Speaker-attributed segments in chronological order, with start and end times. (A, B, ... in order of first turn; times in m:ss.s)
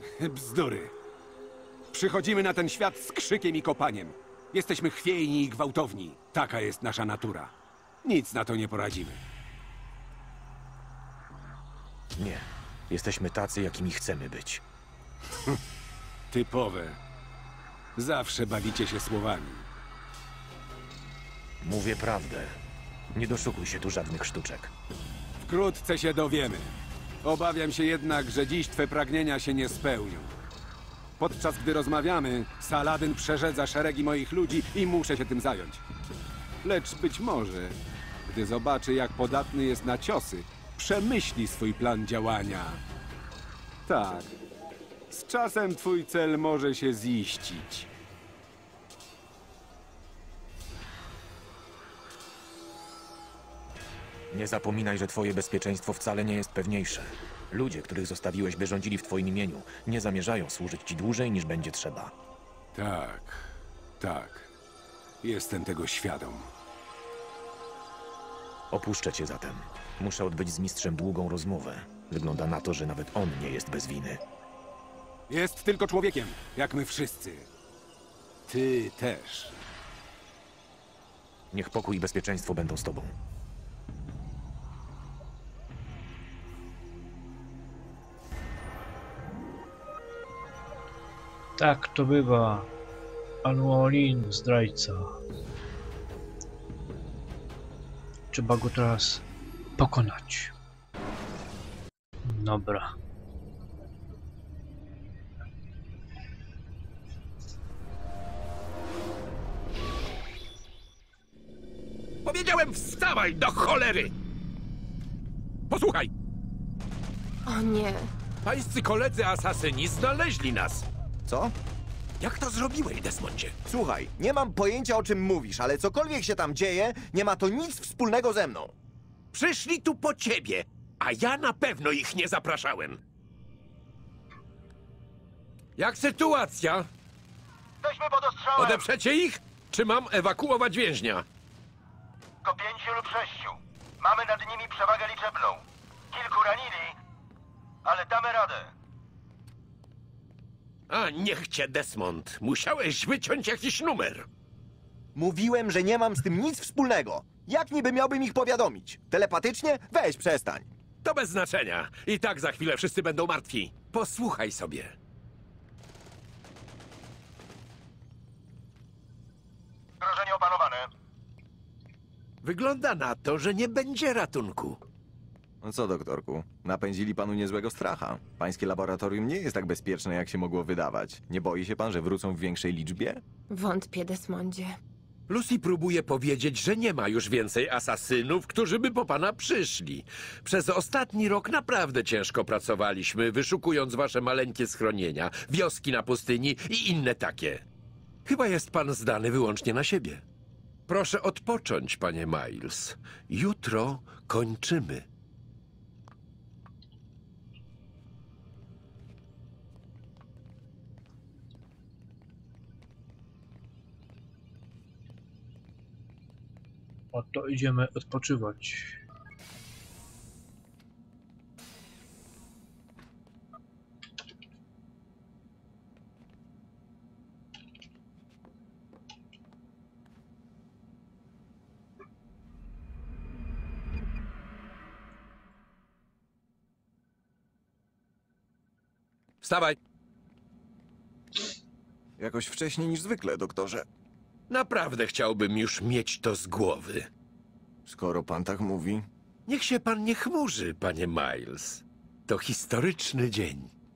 0:00.2-0:00.9 A
0:01.9-0:07.5 A
0:08.0-0:09.2 A
0:12.2-0:14.6 B
0:16.3-0:17.0 A
0:18.0-0:19.7 A
0:21.6-0:22.6 B
0:23.1-0:24.7 B
0:25.4-0:26.7 A
0:27.2-0:30.3 A
0:31.2-0:35.8 A
0:36.6-0:37.8 A
0:38.3-0:42.8 A
0:43.9-0:44.3 A
0:45.1-0:47.9 A
0:54.3-1:02.1 B
1:02.7-1:03.5 A
1:04.0-1:04.5 A
1:05.2-1:06.5 A
1:08.7-1:14.2 B
1:15.3-1:17.5 A
1:18.5-1:19.5 A
1:21.5-1:23.1 B
1:31.6-1:32.7 C
1:33.4-1:35.2 C
1:38.3-1:39.2 C
1:39.8-1:40.5 C
1:42.2-1:42.9 C
1:52.2-1:54.1 D
1:55.7-1:56.1 D
1:57.5-1:58.1 E
1:58.4-2:00.9 D
2:01.3-2:01.5 F
2:02.2-2:03.6 D
2:03.7-2:08.7 F
2:09.3-2:13.0 D
2:15.8-2:16.9 D
2:17.8-2:18.9 G
2:18.6-2:21.2 D
2:22.4-2:26.9 G
2:27.8-2:28.7 G
2:30.9-2:34.3 D
2:35.2-2:40.7 F
2:41.0-2:45.0 D
2:50.0-2:50.9 G
2:52.4-2:54.8 D
2:55.6-3:03.2 F
3:03.5-3:04.8 E
3:05.3-3:17.6 D
3:18.3-3:20.2 D
3:20.9-3:25.1 D
3:37.1-3:39.0 C
3:59.4-3:59.8 D
4:02.2-4:03.9 F
4:04.5-4:07.1 D
4:07.9-4:09.1 F
4:09.5-4:13.7 D